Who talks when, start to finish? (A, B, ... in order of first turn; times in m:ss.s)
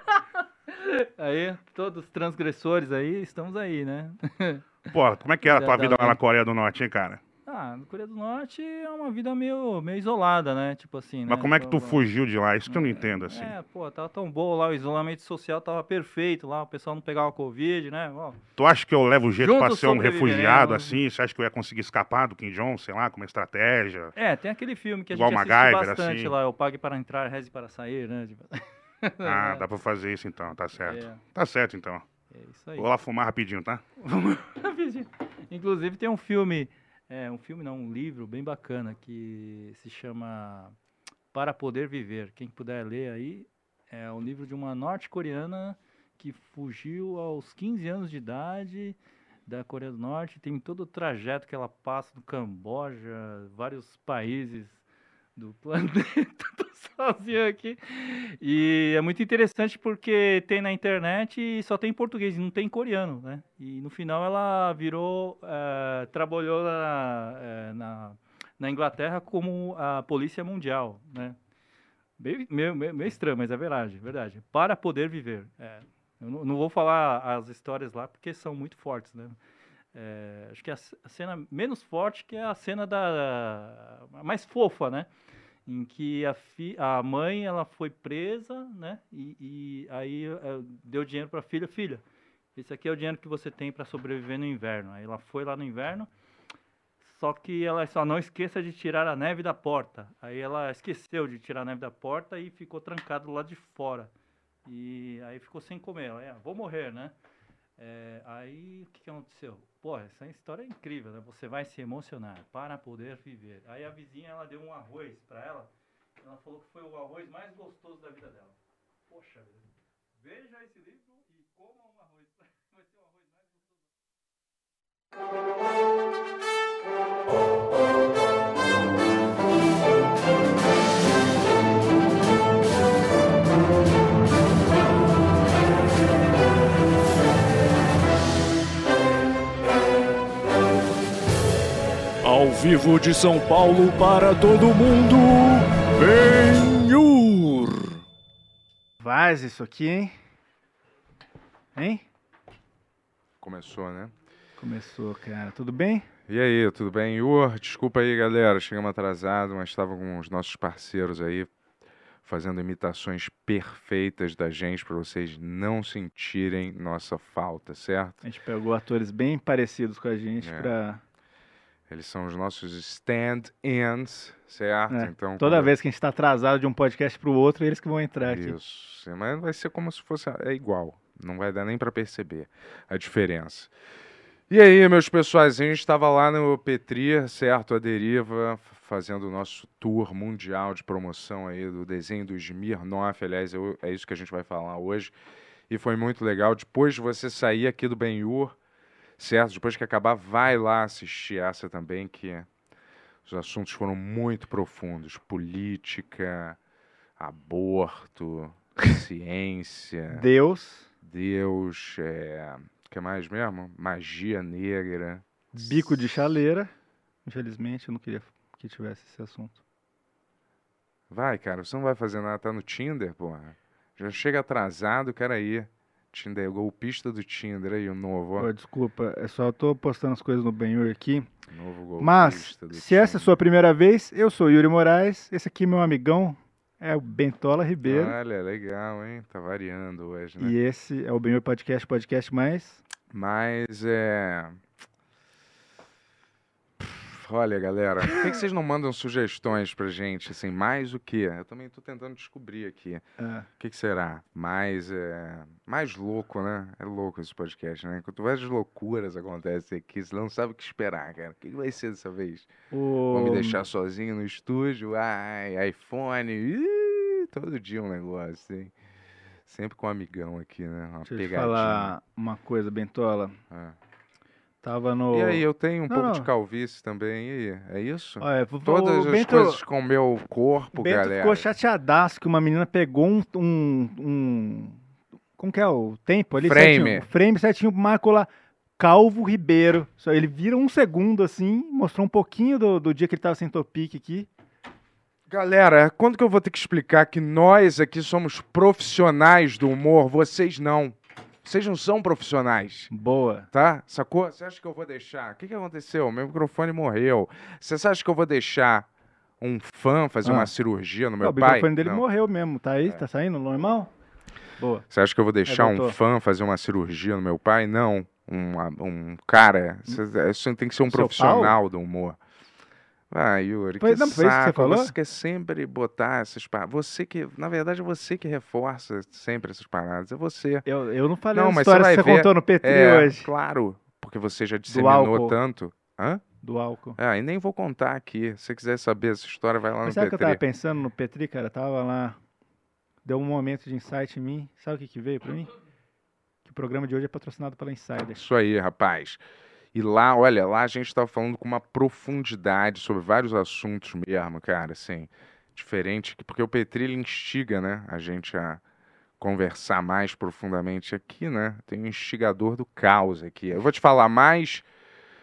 0:00.7-0:04.7 A
0:04.9-0:07.2 B
0:05.4-0:06.2 A
0:07.5-0:12.0 A
0:11.3-0:13.5 B
0:12.7-0:18.4 A
0:18.6-0:24.1 B
0:19.4-0:21.0 A
0:24.2-0:29.6 A
0:25.1-0:26.3 B
0:29.2-0:32.0 B
0:30.8-0:31.2 A
0:32.3-0:32.9 A
0:32.8-0:33.8 B
0:34.0-0:40.8 A
0:41.3-0:54.8 A
0:55.4-1:11.4 A
1:12.2-1:19.4 A
1:19.9-1:25.1 A
1:25.7-1:32.0 A
1:32.6-1:36.1 A
1:37.0-1:44.1 A
1:44.7-1:47.1 A
1:47.8-1:55.7 A
1:56.2-1:58.6 A
1:59.1-1:59.6 A
2:00.2-2:03.7 A
2:22.2-2:28.0 C
2:29.0-2:30.1 D
2:31.8-2:32.0 D
2:33.4-2:34.1 E
2:34.6-2:36.1 D
2:36.3-2:41.5 E
2:42.2-2:48.2 E
2:48.2-2:51.0 D
2:50.4-2:50.7 E
2:51.9-2:55.7 E
2:54.9-2:58.6 D
2:58.3-3:03.7 E
3:04.5-3:15.1 E
3:15.7-3:18.6 E
3:19.2-3:22.5 E
3:23.2-3:26.6 E
3:27.2-3:30.3 E
3:30.1-3:30.9 D
3:31.0-3:36.0 E
3:35.5-3:36.7 D
3:37.2-3:39.6 D
3:41.1-3:48.5 E
3:48.4-3:51.3 D
3:51.5-3:53.4 E
3:52.0-3:58.2 D
3:57.8-4:00.6 E
4:00.4-4:02.8 D
4:03.1-4:04.6 E
4:06.8-4:13.0 E
4:13.2-4:13.5 D
4:13.6-4:22.5 E
4:22.7-4:23.6 D
4:23.1-4:28.7 E
4:29.4-4:31.9 E
4:31.1-4:33.4 D
4:33.5-4:33.8 E
4:34.6-4:36.3 D
4:35.1-4:41.5 E
4:38.2-4:39.6 D
4:40.8-4:44.8 D
4:45.4-4:54.3 D
4:46.4-4:47.1 E
4:55.3-5:02.9 E
5:02.9-5:03.5 D
5:03.5-5:08.9 E
5:09.4-5:12.0 E
5:10.2-5:10.5 D
5:11.2-5:13.9 D
5:14.6-5:14.8 D
5:14.9-5:22.2 E
5:15.5-5:16.0 D
5:20.9-5:21.6 D
5:23.1-5:30.7 E
5:23.8-5:24.9 D
5:30.6-5:33.3 D
5:31.3-5:36.2 E
5:34.7-5:35.4 D
5:36.4-5:37.0 D
5:37.0-5:40.4 E
5:39.8-5:42.2 D
5:43.0-5:45.5 D
5:46.4-5:48.2 D
5:48.2-5:49.2 E
5:49.7-5:58.6 E
5:59.2-6:04.7 E